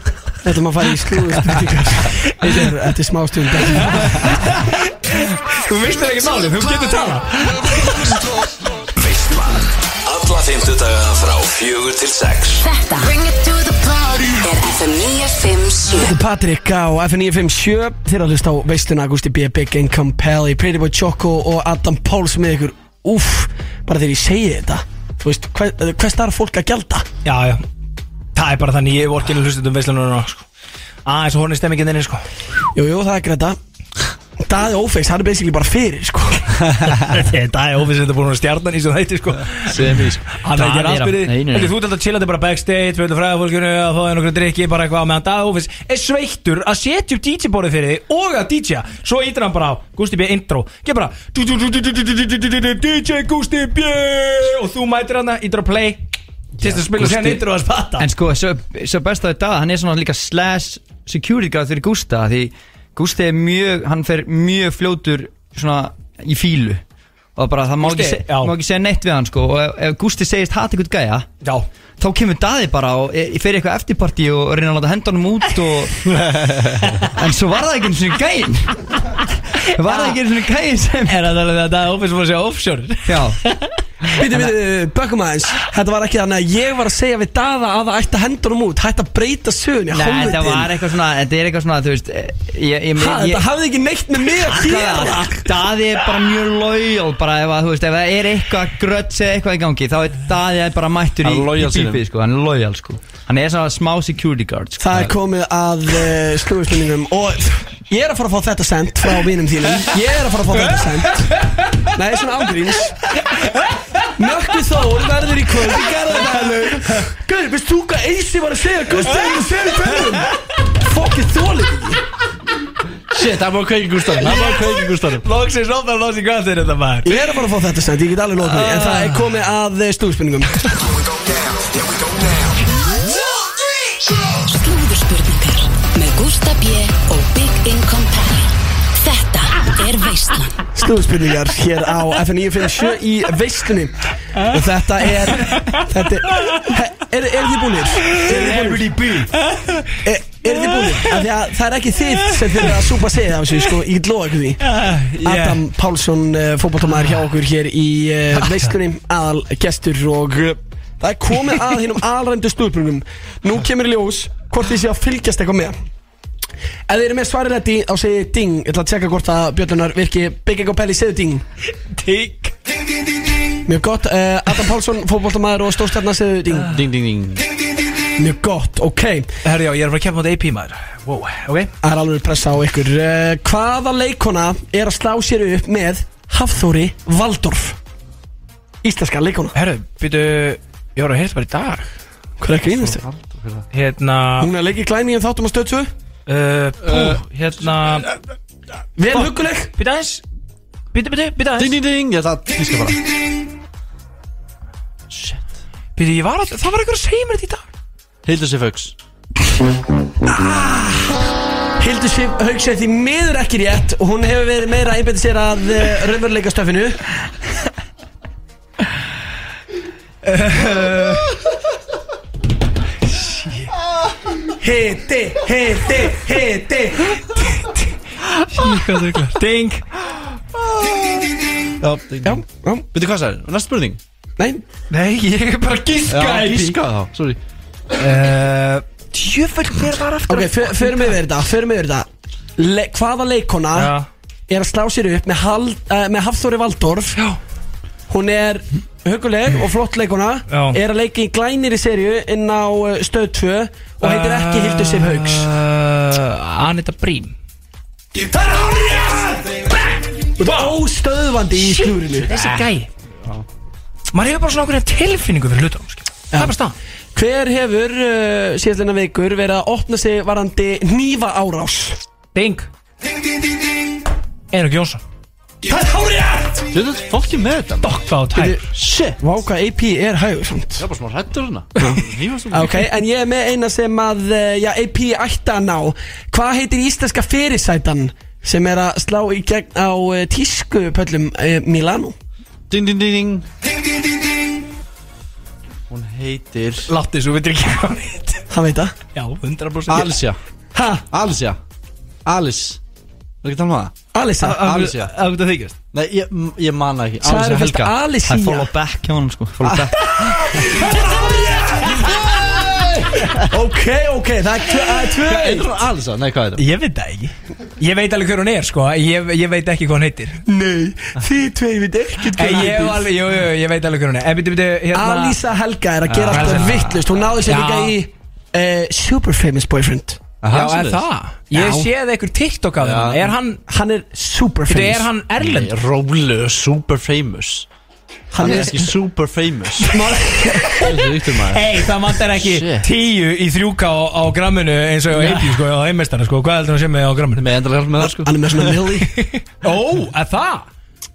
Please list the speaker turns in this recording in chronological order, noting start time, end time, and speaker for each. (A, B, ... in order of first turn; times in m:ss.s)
0:00.4-0:04.2 A
0:03.8-0:08.0 B
0:09.0-0:12.6 C
0:12.6-0:16.1 D
0:16.0-0:27.0 A
0:27.2-0:27.6 B
0:28.3-0:30.4 B
0:31.0-0:32.2 B
0:32.7-0:33.6 A
0:34.4-0:36.5 A
0:37.1-0:39.8 B
0:39.7-0:40.4 E
0:40.3-0:56.0 B
0:40.5-0:41.7 F
0:56.6-0:58.1 B
0:56.9-0:57.4 F
0:58.0-1:06.8 F
1:07.4-1:11.2 F
1:07.8-1:08.5 B
1:11.4-1:11.7 B
1:12.0-1:16.1 F
1:16.1-1:16.8 E
1:17.1-1:21.2 F
1:19.8-1:20.2 B
1:21.0-1:23.7 B
1:23.0-1:23.4 F
1:24.2-1:30.7 A
1:24.2-1:24.5 F
1:29.9-1:33.4 F
1:33.0-1:35.5 A
1:34.4-1:45.1 F
1:41.2-1:42.0 E
1:44.8-1:53.1 A
1:51.4-1:51.9 B
1:53.3-1:53.6 B
1:54.2-2:02.0 A
1:59.1-1:59.3 B
2:03.1-2:05.2 E
2:04.2-2:07.1 B
2:07.0-2:10.7 A
2:08.4-2:09.3 B
2:11.8-2:12.4 C
2:14.4-2:20.6 D
2:20.7-2:28.9 A
2:25.4-2:25.8 B
2:26.4-2:26.7 B
2:28.0-2:28.7 B
2:28.2-2:29.3 F
2:29.3-2:30.0 B
2:30.0-2:34.6 A
2:30.6-2:31.2 B
2:32.3-2:32.8 B
2:34.6-2:35.6 B
2:35.2-2:45.7 A
2:36.9-2:37.2 B
2:38.4-2:38.7 B
2:46.9-2:51.4 A
2:51.9-2:52.5 B
2:53.6-2:56.7 A
2:56.7-2:57.4 E
2:58.2-2:59.3 A
2:59.4-3:01.7 B
3:01.8-3:07.8 A
3:08.8-3:09.5 A
3:09.5-3:11.9 B
3:12.4-3:13.0 A
3:12.8-3:13.6 E
3:13.7-3:14.5 B
3:14.4-3:15.9 A
3:16.3-3:18.1 B
3:16.8-3:17.2 E
3:19.0-3:19.7 A
3:19.1-3:20.2 B
3:20.9-3:21.7 B
3:21.6-3:23.0 E
3:25.1-3:25.4 E
3:26.0-3:27.7 B
3:28.2-3:28.9 E
3:30.2-3:31.2 A
3:31.8-3:37.0 A
3:40.2-3:41.3 B
3:43.1-3:43.7 B
3:44.5-3:47.1 A
3:47.1-3:47.8 B
3:48.5-3:49.8 B
3:50.6-3:51.3 E
3:51.8-3:54.0 E
3:52.2-3:52.8 A
3:54.9-3:56.8 B
3:56.1-3:57.4 E
3:58.0-4:01.2 B
4:00.3-4:03.9 A
4:03.7-4:04.1 B
4:04.5-4:07.2 A
4:08.1-4:15.4 A
4:10.5-4:10.8 B
4:14.0-4:17.3 B
4:20.4-4:22.4 A
4:20.4-4:20.7 B
4:21.6-4:22.9 B
4:24.1-4:26.7 B
4:27.1-4:32.0 A
4:32.3-4:32.7 B
4:34.5-4:35.0 B
4:35.7-4:36.5 A
4:36.7-4:38.0 E
4:37.8-4:38.6 B
4:38.3-4:38.6 A
4:38.7-4:39.2 E
4:39.2-4:40.8 A
4:40.8-4:42.9 E
4:41.8-4:52.1 A
4:52.7-4:53.4 E
4:55.9-4:56.9 E
4:56.9-4:58.4 B
4:58.5-4:58.9 A
4:59.1-5:00.2 B
4:59.9-5:00.4 E
5:00.7-5:01.0 A
5:01.1-5:01.6 E
5:02.2-5:02.8 E
5:03.4-5:03.9 E
5:04.1-5:04.6 A
5:04.4-5:05.7 B
5:04.5-5:05.1 E
5:05.9-5:07.9 E
5:07.2-5:08.7 A
5:08.2-5:10.0 F
5:09.6-5:13.5 E
5:10.5-5:11.0 B
5:10.7-5:12.0 A
5:13.5-5:15.7 A
5:15.1-5:16.6 E
5:16.6-5:20.4 B
5:20.4-5:23.1 A
5:22.4-5:25.4 B
5:24.9-5:30.2 A
5:26.1-5:27.0 E
5:26.3-5:27.9 B
5:30.4-5:31.0 E
5:30.5-5:33.6 B
5:31.5-5:31.8 A
5:32.8-5:33.3 E
5:33.7-5:35.1 A
5:34.7-5:35.7 B
5:35.4-5:37.7 E
5:38.3-5:38.9 A
5:38.4-5:40.0 E
5:39.8-5:40.9 A
5:40.8-5:42.9 E
5:41.5-5:47.4 B
5:45.1-5:45.6 E
5:47.4-5:48.7 E
5:48.1-5:49.1 A
5:49.1-5:50.6 B